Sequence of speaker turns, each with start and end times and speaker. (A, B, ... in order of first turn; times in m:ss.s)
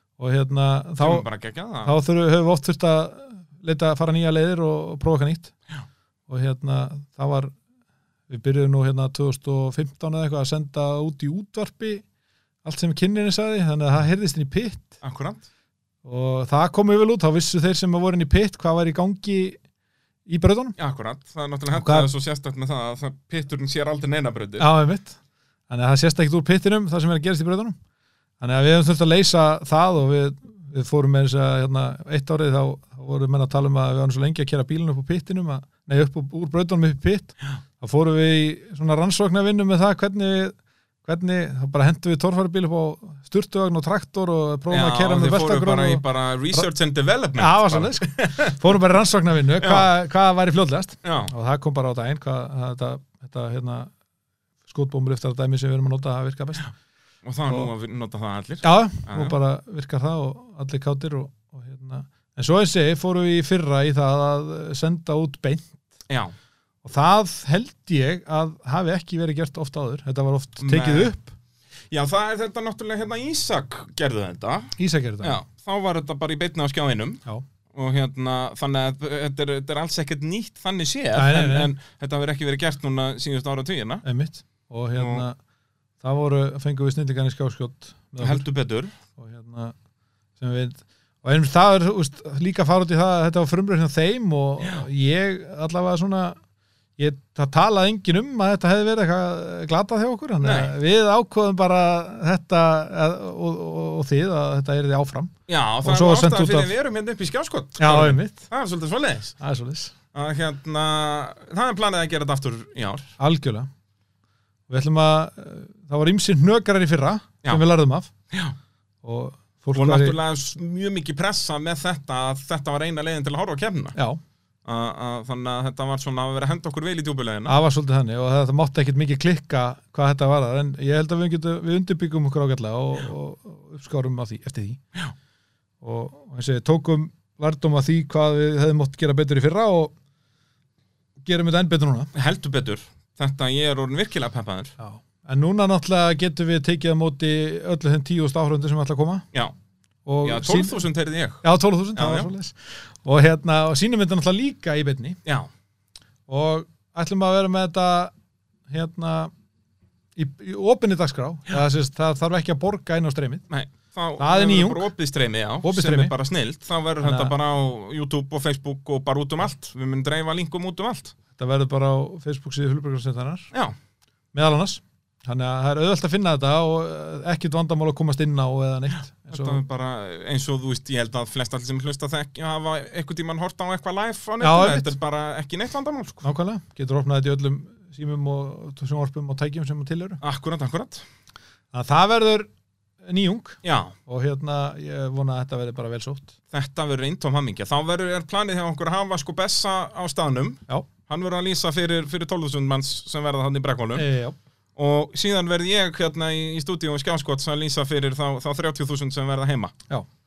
0:00.2-0:01.2 A
0:01.0-0:01.9 B
0:01.8-0:05.5 A
0:06.3-0:07.5 A
0:08.3-0:12.0 A
0:12.6-0:15.0 A
0:15.0-0:15.4 B
0:16.0-0:19.6 A
0:20.2-0:20.8 A
0:20.8-0:24.7 B
0:21.7-0:22.1 A
0:24.6-0:27.8 A
0:28.4-0:46.7 A
0:44.7-0:48.8 B
0:47.4-0:53.9 A
0:49.6-0:49.9 B
0:51.0-0:51.3 B
0:54.7-0:56.7 A
0:57.2-0:59.4 B
0:58.6-1:05.8 A
1:06.1-1:06.3 B
1:06.8-1:11.3 A
1:10.6-1:11.1 B
1:11.9-1:17.2 B
1:14.8-1:15.4 A
1:17.7-1:24.0 B
1:21.1-1:21.7 A
1:24.0-1:25.4 A
1:25.0-1:25.2 B
1:26.0-1:28.5 A
1:28.2-1:28.9 B
1:29.1-1:29.8 A
1:30.4-1:36.4 A
1:37.0-1:46.7 A
1:40.4-1:40.7 B
1:45.5-1:49.3 B
1:47.8-1:48.4 A
1:49.4-1:49.9 A
1:50.1-1:53.2 B
1:53.2-1:53.7 A
1:54.7-1:58.1 A
1:58.3-1:58.6 B
1:59.0-2:00.2 A
1:59.7-2:04.0 B
2:04.6-2:07.5 B
2:07.4-2:14.8 A
2:15.8-2:19.9 A
2:21.2-2:22.1 A
2:22.1-2:24.7 B
2:24.8-2:29.3 A
2:30.0-2:30.9 A
2:30.2-2:31.4 B
2:31.4-2:35.2 A
2:31.9-2:32.3 B
2:36.3-2:38.1 A
2:38.7-2:39.3 A
2:40.2-2:43.5 A
2:43.5-2:51.1 B
2:44.2-2:44.9 A
2:45.6-2:46.1 A
2:47.0-2:47.3 A
2:51.4-2:53.5 A
2:54.3-2:59.6 A
2:59.3-3:06.2 B
3:04.4-3:04.9 A
3:06.2-3:10.2 A
3:10.2-3:11.0 B
3:11.7-3:12.5 A
3:13.0-3:16.4 A
3:13.6-3:13.9 B
3:16.5-3:24.1 B
3:23.9-3:24.4 A
3:24.8-3:29.7 B